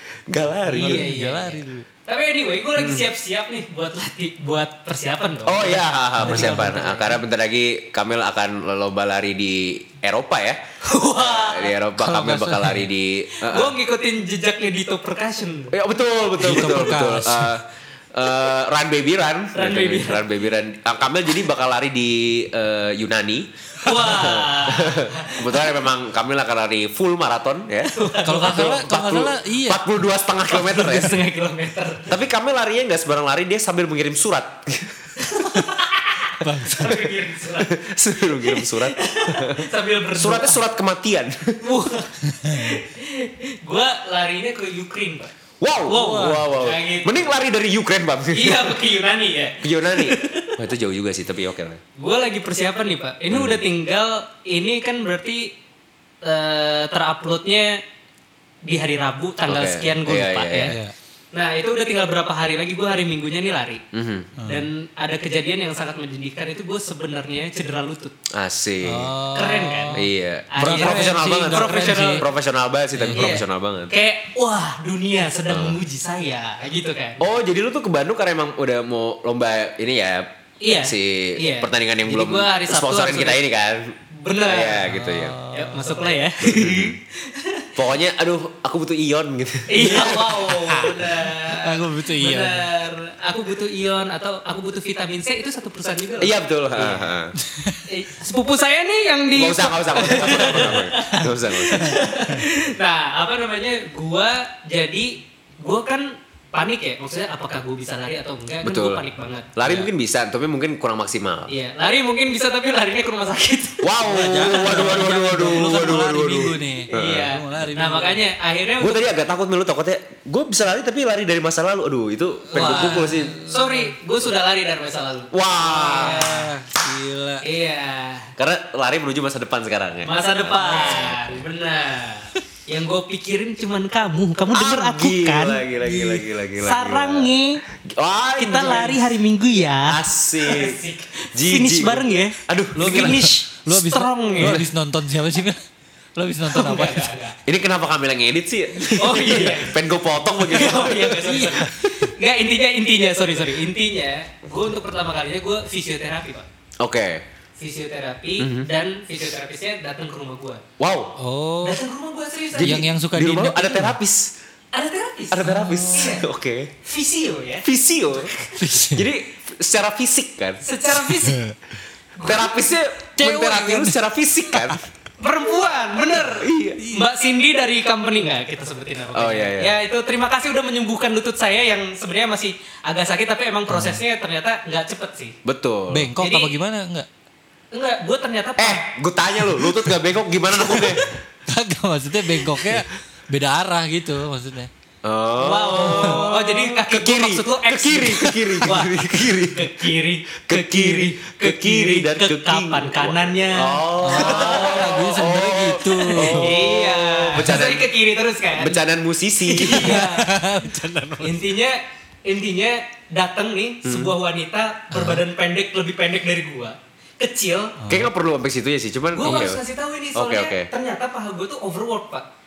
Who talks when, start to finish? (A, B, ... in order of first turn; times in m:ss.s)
0:00.3-0:01.1 A
0:00.7-0:01.9 B
0:00.7-0:07.2 C
0:02.8-0:03.1 A
0:05.5-0:10.6 A
0:06.2-0:06.8 B
0:10.8-0:11.7 C
0:11.1-0:13.8 A
0:12.0-0:12.9 B
0:13.4-0:15.7 C
0:15.7-0:31.2 A
0:16.4-0:17.5 B
0:19.6-0:20.3 C
0:23.8-0:25.8 C
0:27.9-0:28.8 C
0:28.2-0:29.9 B
0:30.5-0:32.2 C
0:32.1-0:35.3 A
0:35.2-0:40.6 C
0:36.4-0:37.1 B
0:37.6-0:41.6 A
0:41.6-0:45.3 C
0:42.3-0:42.8 B
0:45.6-0:48.8 A
0:45.9-0:47.3 C
0:45.9-0:46.5 B
0:48.3-0:50.6 C
0:49.6-0:51.8 A
0:52.0-0:55.5 C
0:53.3-0:53.6 A
0:56.2-0:57.8 C
0:58.6-1:00.8 C
0:59.5-1:00.8 A
1:00.6-1:00.9 B
1:01.3-1:03.8 C
1:03.9-1:04.3 A
1:04.4-1:04.7 B
1:04.5-1:08.1 C
1:08.3-1:09.1 A
1:08.8-1:10.1 B
1:09.3-1:12.2 C
1:09.9-1:13.9 A
1:10.6-1:12.2 B
1:12.9-1:13.4 B
1:13.1-1:17.2 C
1:15.5-1:15.8 A
1:17.2-1:25.4 A
1:20.6-1:23.4 C
1:24.2-1:24.9 C
1:24.9-1:26.2 B
1:25.5-1:27.7 C
1:26.4-1:27.0 A
1:27.8-1:30.5 A
1:29.7-1:37.1 C
1:29.9-1:32.7 B
1:36.2-1:37.3 A
1:37.4-1:37.8 B
1:37.9-1:49.8 C
1:39.3-1:42.0 A
1:40.4-1:42.4 B
1:48.6-1:49.0 A
1:49.6-1:51.5 A
1:51.5-1:55.0 C
1:53.8-1:57.3 A
1:54.1-1:58.2 B
1:56.9-1:59.1 C
1:58.8-2:03.4 A
2:02.5-2:03.9 B
2:02.5-2:06.5 C
2:05.3-2:06.3 A
2:05.7-2:07.4 B
2:07.4-2:08.3 C
2:08.4-2:11.4 A
2:10.1-2:17.6 C
2:10.8-2:11.1 B
2:14.5-2:19.0 A
2:18.4-2:24.7 C
2:19.9-2:20.8 A
2:21.3-2:23.3 A
2:22.8-2:25.6 B
2:26.2-2:27.1 B
2:26.5-2:27.4 C
2:27.5-2:31.7 A
2:29.0-2:29.8 C
2:30.4-2:36.5 C
2:31.2-2:32.0 B
2:36.8-2:37.2 A
2:37.6-2:40.6 C
2:38.4-2:38.7 A
2:40.8-2:41.2 A
2:41.2-2:41.8 B
2:41.6-2:42.9 C
2:42.6-2:44.3 A
2:42.6-2:44.0 B
2:44.7-2:46.2 C
2:45.3-2:46.7 A
2:45.4-2:46.2 B
2:46.8-2:48.6 C
2:47.6-2:50.6 A
2:48.6-2:49.1 B
2:50.6-2:51.4 C
2:51.0-2:51.6 B
2:52.2-2:52.7 C
2:52.2-2:54.9 A
2:53.2-2:54.8 B
2:55.2-3:05.4 C
2:56.4-2:56.8 A
2:56.8-2:57.1 B
2:59.1-2:59.8 A
3:03.7-3:04.0 B
3:05.4-3:06.1 A
3:05.9-3:07.1 B
3:06.2-3:06.6 C
3:07.7-3:08.8 C
3:08.6-3:11.1 A
3:11.5-3:14.7 B
3:15.0-3:19.9 A
3:15.4-3:25.2 C
3:15.9-3:16.3 B
3:20.4-3:27.9 A
3:24.0-3:26.7 B
3:26.1-3:28.8 C
3:28.6-3:30.1 A
3:29.4-3:30.3 C
3:29.6-3:31.5 B
3:31.2-3:37.8 C
3:33.8-3:34.1 A
3:34.9-3:35.2 B
3:37.8-3:38.1 B
3:37.9-3:39.6 A
3:39.2-3:42.2 C
3:40.1-3:40.7 A